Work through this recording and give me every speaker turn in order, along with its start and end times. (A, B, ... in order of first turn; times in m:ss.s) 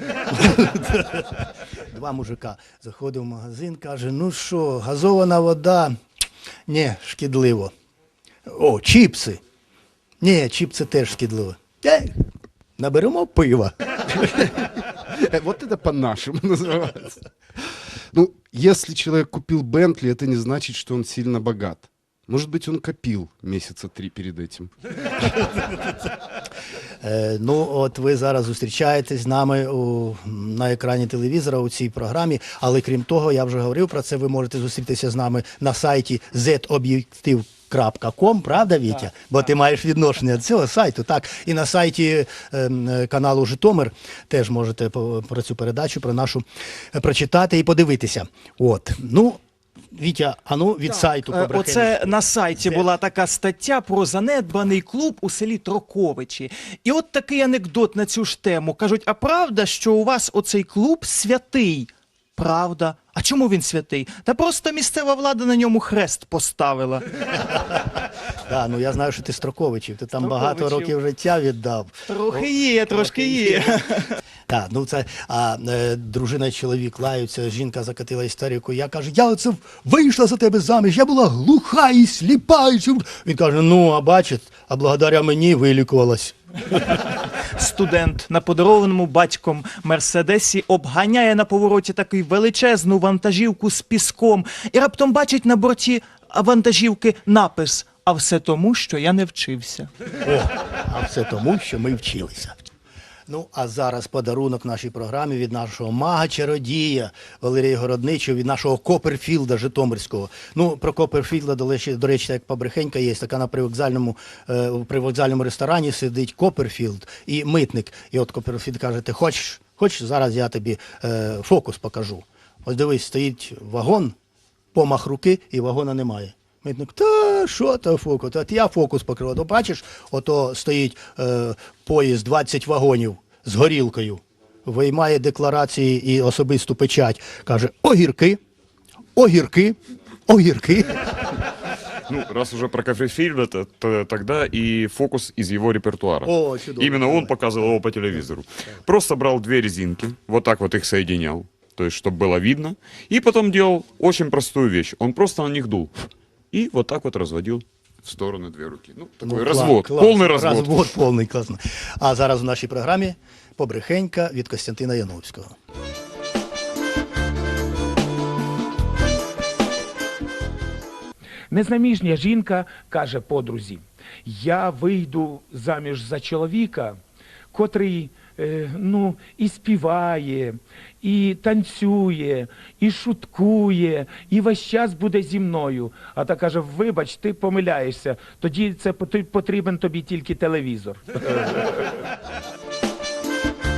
0:00.3-0:06.0 A
0:06.7-0:07.7 A
0:08.5-0:09.4 A
0:10.2-0:12.2 A
0:12.8-0:13.7 A
0:15.1-0:17.2 B
0:18.1-0:24.7 B
0:27.0-0:49.4 A
0:49.9-0:52.8 A
0:51.3-1:07.0 C
1:08.5-1:13.8 A
1:10.2-1:10.9 C
1:12.1-1:14.1 C
1:14.5-1:26.4 A
1:27.6-1:39.9 C
1:40.2-1:42.6 A
1:43.3-2:04.2 A
2:04.7-2:18.4 A
2:19.2-2:21.2 A
2:22.1-2:40.9 D
2:26.2-2:27.3 A
2:39.2-2:45.6 A
2:51.5-2:57.0 E
2:57.5-3:11.7 E